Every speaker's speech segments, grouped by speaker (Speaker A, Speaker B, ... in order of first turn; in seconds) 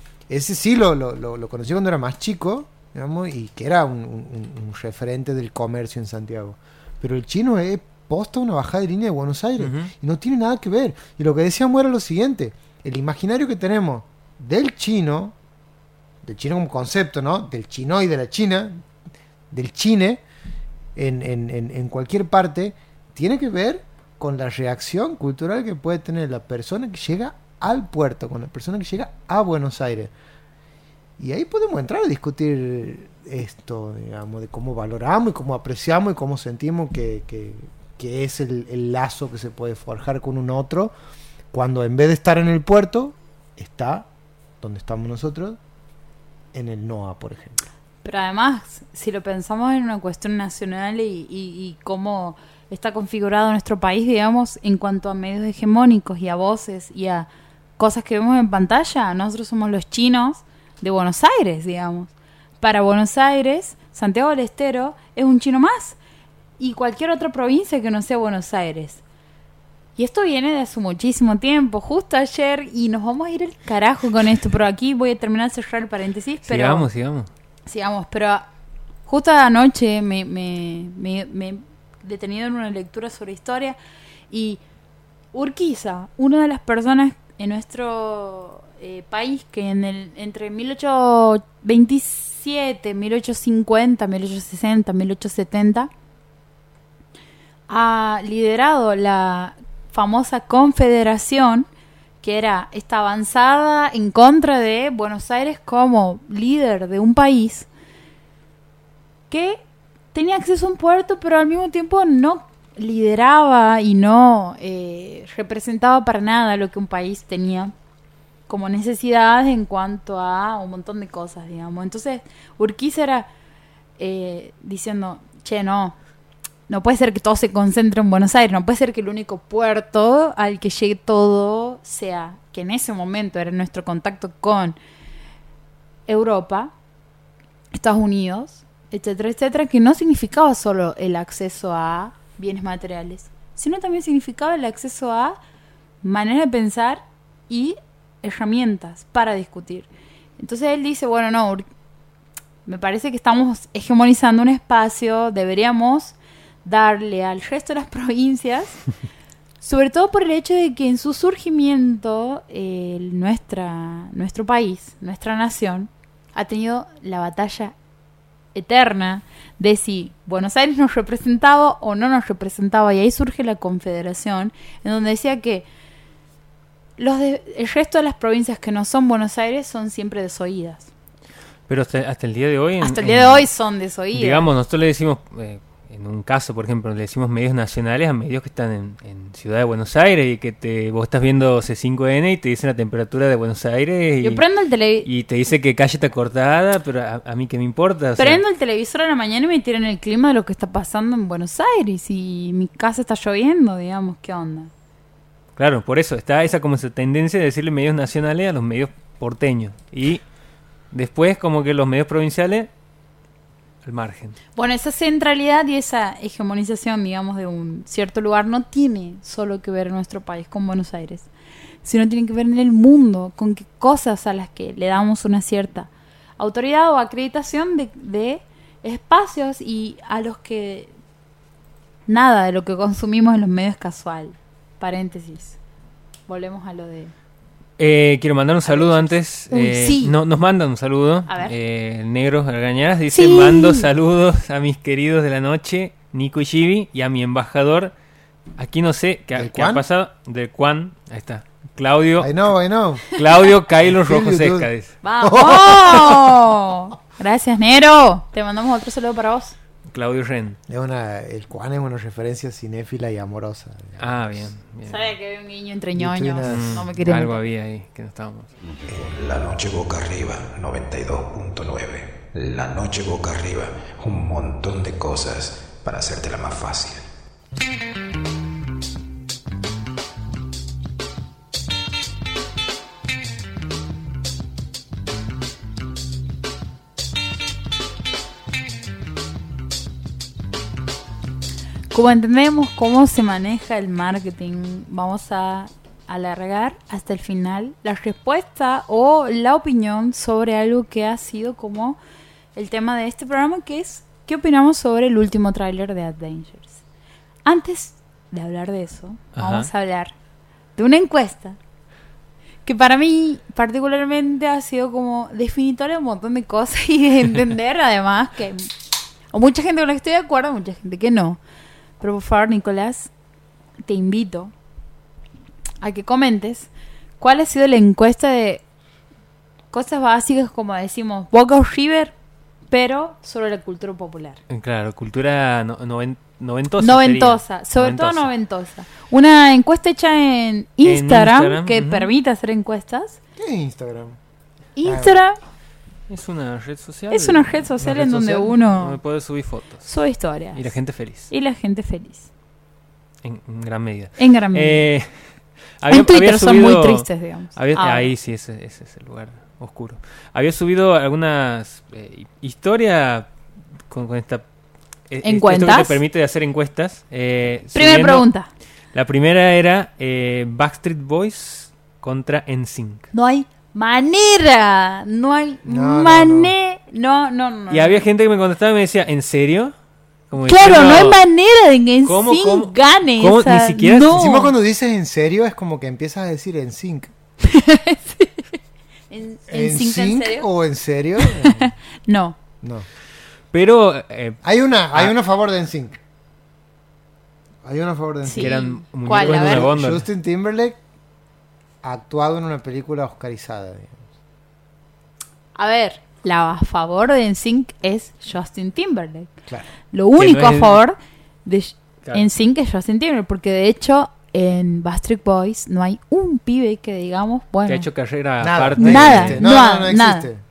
Speaker A: 0.3-15.3, 16.2-18.8, 19.5-20.2, 21.0-30.1, 31.2-40.9, 41.5-44.1, 44.6-45.6, 46.5-47.6, 249.3-249.8, 252.2-253.1, 253.9-254.7, 255.2-256.4, 260.7-264.4, 265.9-266.8, 343.4-344.2, 344.8-345.2, 347.8-348.5, 375.7-376.6, 384.1-387.1, 389.5-391.7, 394.4-396.0, 397.6-398.5, 399.1-400.8, 401.8-404.0, 418.4-420.4
Speaker B: 9.6-9.9, 76.5-77.3, 181.7-183.5, 184.1-194.4, 195.1-198.4, 205.6-210.2, 210.9-212.7, 213.8-214.4, 237.8-247.9, 248.6-252.3, 253.1-254.9, 259.9-260.6, 264.0-265.0, 266.4-268.5, 309.4-309.7, 334.5-338.3, 340.8-342.1, 346.1-347.6, 348.3-349.9, 350.6-351.3, 353.2-355.1, 355.8-363.3, 363.9-364.4, 365.1-368.3, 368.9-373.1, 377.7-379.7, 380.3-381.2, 382.1-384.2, 393.5-394.4, 398.4-400.1, 410.2-410.8, 417.7-419.4
Speaker C: 48.0-66.0, 66.6-69.0, 70.0-76.9, 77.7-78.5, 79.1-83.8, 84.3-84.6, 85.3-95.9, 97.7-101.7, 102.2-107.7, 109.3-109.6, 110.1-117.7, 118.5-123.3, 124.0-126.0, 126.7-134.8, 136.1-136.7, 137.7-145.4, 146.0-149.9, 150.4-151.7, 152.7-158.8, 159.6-167.8, 168.5-175.7, 177.0-180.9, 182.8-184.5, 194.2-195.1, 198.2-204.7, 214.6-221.3, 221.8-230.9, 232.1-235.6, 236.3-237.1, 238.7-240.1, 241.3-241.6, 243.1-243.9, 255.0-259.6, 264.9-267.4, 291.9-302.0, 302.6-306.8, 307.4-310.1, 310.8-311.6, 312.6-318.7, 319.3-321.4, 322.0-323.1, 323.9-324.5, 325.8-326.7, 327.2-328.6, 329.7-332.1, 332.7-334.4, 336.8-343.2, 344.8-345.4, 347.1-349.0, 349.9-350.7, 351.3-352.3, 354.2-354.8, 355.9-358.1, 365.2-366.0, 367.7-368.5, 373.1-378.0, 380.4-384.5, 387.4-388.5, 389.1-390.5, 391.2-392.4, 398.2-399.7, 405.6-409.3, 409.9-417.9, 418.8-420.3
Speaker D: 268.9-277.0